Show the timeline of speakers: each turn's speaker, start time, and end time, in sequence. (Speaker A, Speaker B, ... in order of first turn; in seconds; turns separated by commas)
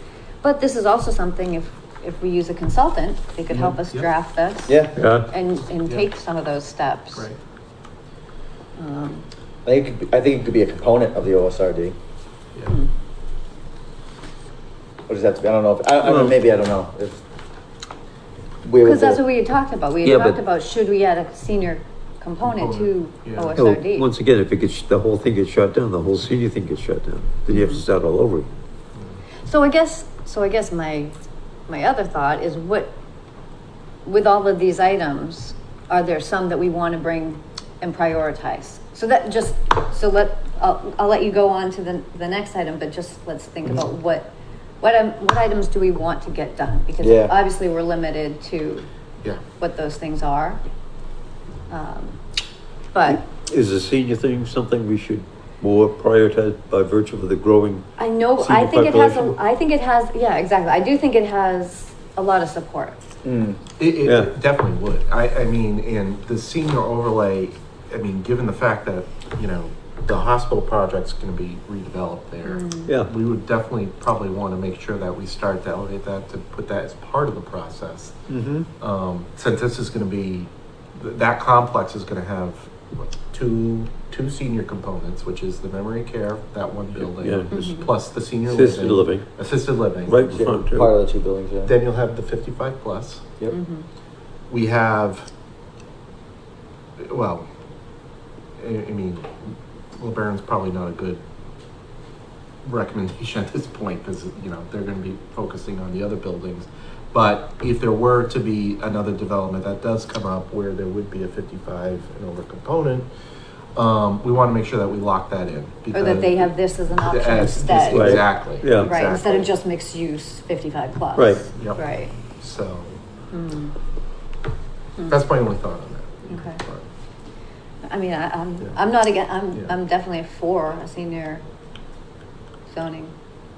Speaker A: 0.4-7.2, Speaker B: 3.5-4.1, Speaker C: 4.7-5.0, Speaker D: 5.0-5.3, Speaker A: 8.8-9.2, Speaker C: 9.6-11.9, Speaker C: 15.1-17.2, Speaker D: 16.0-16.3, Speaker C: 18.6-19.2, Speaker A: 18.8-24.1, Speaker D: 20.0-20.4, Speaker B: 22.4-23.6, Speaker D: 23.6-28.5, Speaker A: 27.5-27.8, Speaker A: 29.5-31.1, Speaker A: 31.7-32.9, Speaker A: 34.0-48.9, Speaker C: 47.0-47.3, Speaker A: 49.6-50.6, Speaker A: 51.7-52.2, Speaker A: 52.9-53.2, Speaker D: 53.1-59.3, Speaker A: 58.0-63.0, Speaker C: 63.2-63.6, Speaker B: 63.8-78.2, Speaker D: 64.0-64.3, Speaker A: 72.4-72.9, Speaker D: 72.9-73.1, Speaker D: 78.3-78.7, Speaker B: 78.8-90.2, Speaker D: 87.0-87.7, Speaker A: 87.5-87.9, Speaker D: 88.5-89.2, Speaker D: 90.0-90.9, Speaker C: 90.3-91.7, Speaker B: 91.7-93.3, Speaker A: 93.5-93.8, Speaker B: 94.5-95.3, Speaker B: 97.0-97.4, Speaker B: 98.6-101.2, Speaker B: 102.6-113.1, Speaker B: 113.8-119.5, Speaker A: 115.9-122.1, Speaker D: 117.9-119.1, Speaker D: 121.2-121.4, Speaker B: 121.5-123.0, Speaker A: 123.3-123.7, Speaker A: 125.0-125.2, Speaker B: 125.1-126.8, Speaker A: 126.3-126.6, Speaker A: 127.8-131.4, Speaker A: 132.7-133.1